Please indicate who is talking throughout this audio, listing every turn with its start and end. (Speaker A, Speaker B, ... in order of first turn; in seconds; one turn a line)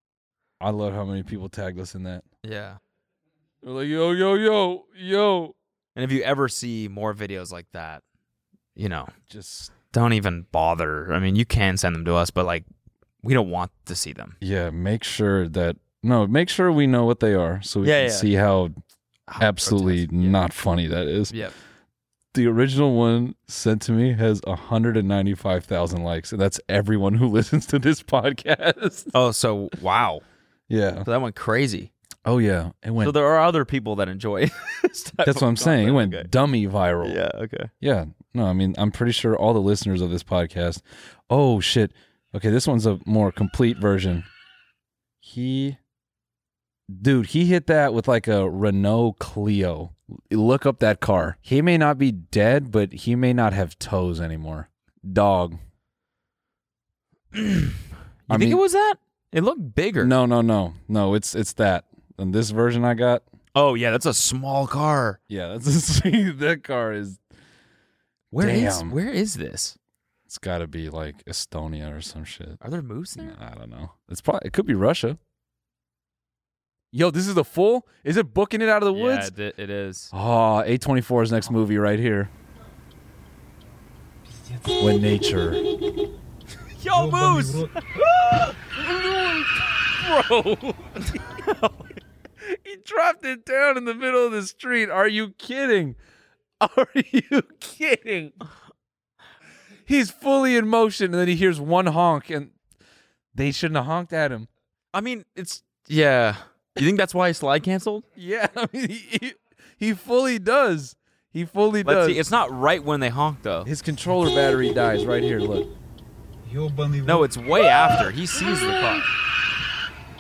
Speaker A: 0.6-2.2
Speaker B: 2.4-2.8
Speaker A: 3.6-5.6
Speaker B: 6.0-8.0
Speaker B: 8.8-9.1
Speaker A: 9.3-9.7
Speaker B: 9.9-12.7
Speaker B: 13.2-14.4
Speaker A: 14.4-18.8
Speaker B: 17.8-18.3
Speaker B: 19.3-20.4
Speaker A: 19.4-21.4
Speaker A: 22.3-29.1
Speaker B: 29.1-30.2
Speaker A: 30.7-31.1
Speaker B: 31.0-31.9
Speaker A: 32.2-33.2
Speaker B: 33.0-36.3
Speaker A: 35.2-37.2
Speaker B: 37.0-37.7
Speaker A: 37.8-44.3
Speaker A: 45.2-45.8
Speaker A: 46.9-55.6
Speaker B: 57.3-60.1
Speaker A: 58.3-58.6
Speaker A: 60.0-63.2
Speaker B: 63.5-65.2
Speaker A: 65.3-67.2
Speaker B: 68.3-69.8
Speaker A: 68.4-69.0
Speaker A: 70.3-72.6
Speaker B: 72.6-73.4
Speaker A: 73.2-75.2
Speaker A: 76.9-79.3
Speaker B: 78.9-80.1
Speaker A: 80.1-82.3
Speaker A: 84.8-85.6
Speaker B: 86.8-87.8
Speaker A: 87.8-91.7
Speaker A: 92.4-96.0
Speaker A: 96.6-98.4
Speaker A: 99.9-102.5
Speaker A: 103.3-104.5
Speaker B: 104.9-108.0
Speaker A: 108.2-112.2
Speaker B: 111.8-113.7
Speaker A: 113.7-115.7
Speaker B: 117.0-119.1
Speaker A: 118.5-119.0